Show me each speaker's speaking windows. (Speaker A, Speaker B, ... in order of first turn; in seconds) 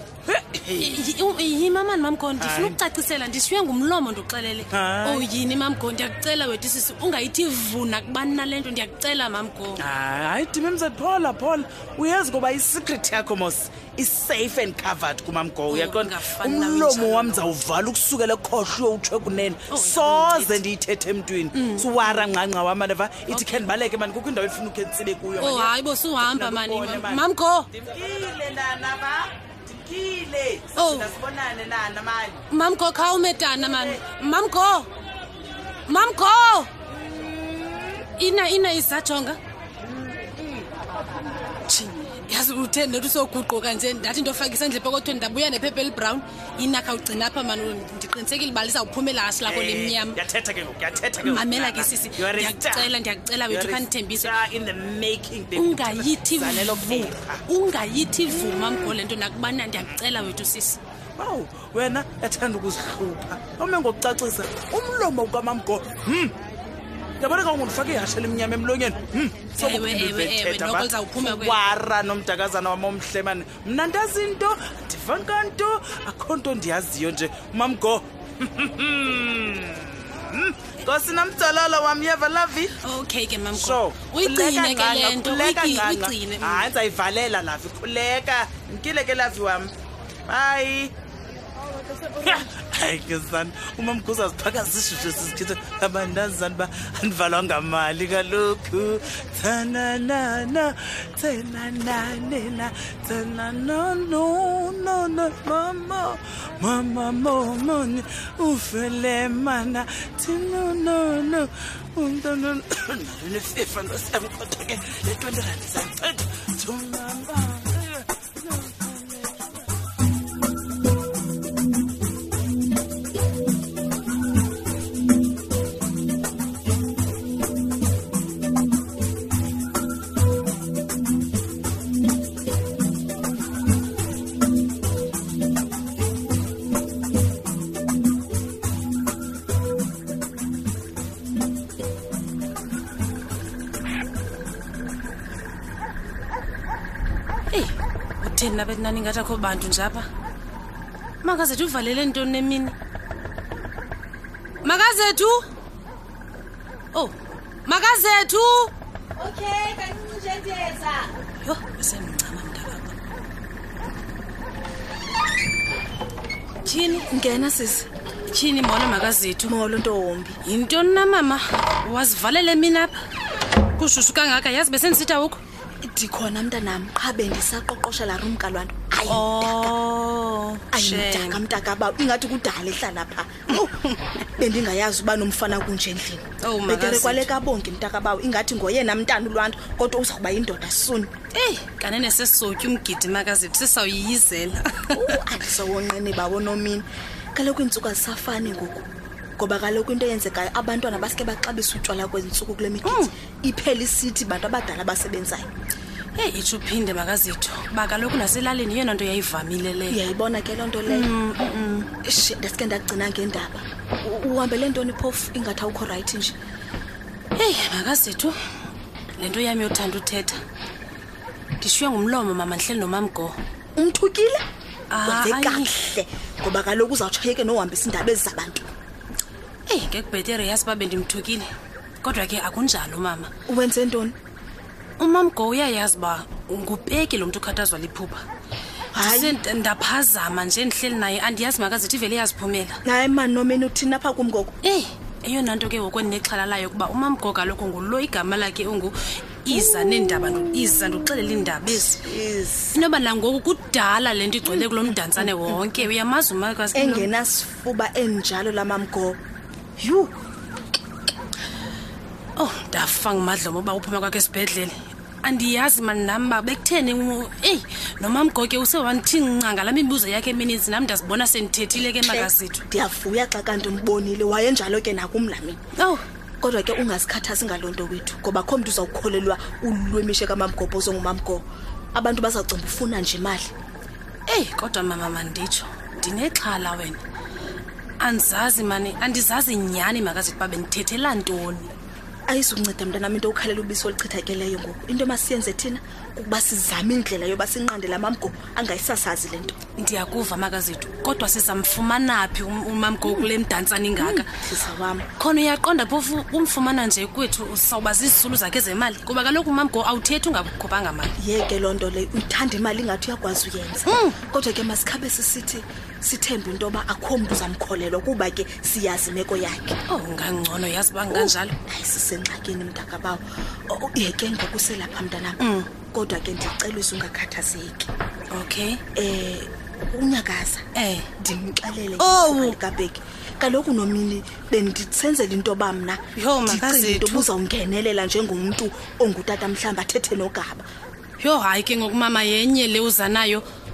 Speaker A: 0.3-1.1, 2.4-2.8, 4.7-5.2, 9.8-32.4, 33.6-34.0, 37.2-37.9, 49.4-52.9, 53.5-57.4, 61.2-66.3, 67.2-82.7, 83.5-89.7, 90.3-90.9, 92.2-119.5
Speaker B: 0.8-9.8, 15.7-17.5, 19.7-20.6, 21.5-22.2, 23.3-23.7, 25.4-27.7, 30.7-31.1, 32.5-34.9, 35.9-36.7, 38.1-39.4, 41.6-50.2, 51.2-54.3, 55.5-60.8, 69.5-71.6, 82.8-86.7, 147.5-150.1, 151.2-152.7, 154.6-155.4, 156.9-162.9, 166.6-167.1, 168.3-169.5, 170.4-172.9, 173.8-175.4, 179.1-181.4, 186.4-187.3, 191.3-195.2, 202.8-203.1, 206.2-210.0, 210.9-211.9, 217.3-218.3, 219.2-220.4, 221.6-223.3, 224.9-225.7, 229.7-231.5, 232.0-233.3, 235.0-238.2, 239.0-242.8, 244.6-252.0, 252.7-257.1, 262.4-272.6, 275.8-276.0, 284.3-287.0, 288.0-291.7, 299.8-304.3, 305.2-311.1, 313.9-314.2, 319.9-321.6, 325.4-325.7, 328.3-328.8, 330.7-331.1, 332.0-332.6, 336.1-337.3, 341.2-343.4
Speaker C: 167.1-167.9, 169.4-170.4, 175.8-179.8, 180.7-183.8, 184.3-191.1, 194.9-198.9, 199.4-205.5, 209.9-211.1, 212.0-216.3, 223.8-224.4, 225.0-228.7, 233.5-234.1, 238.9-239.4, 242.8-244.5, 251.7-252.8, 254.4-255.6, 256.7-259.2, 259.8-260.1, 272.0-275.6, 276.4-283.5, 292.3-299.6, 304.0-305.1, 311.2-319.8, 321.1-325.4, 325.9-327.9, 328.9-330.6, 331.2-340.6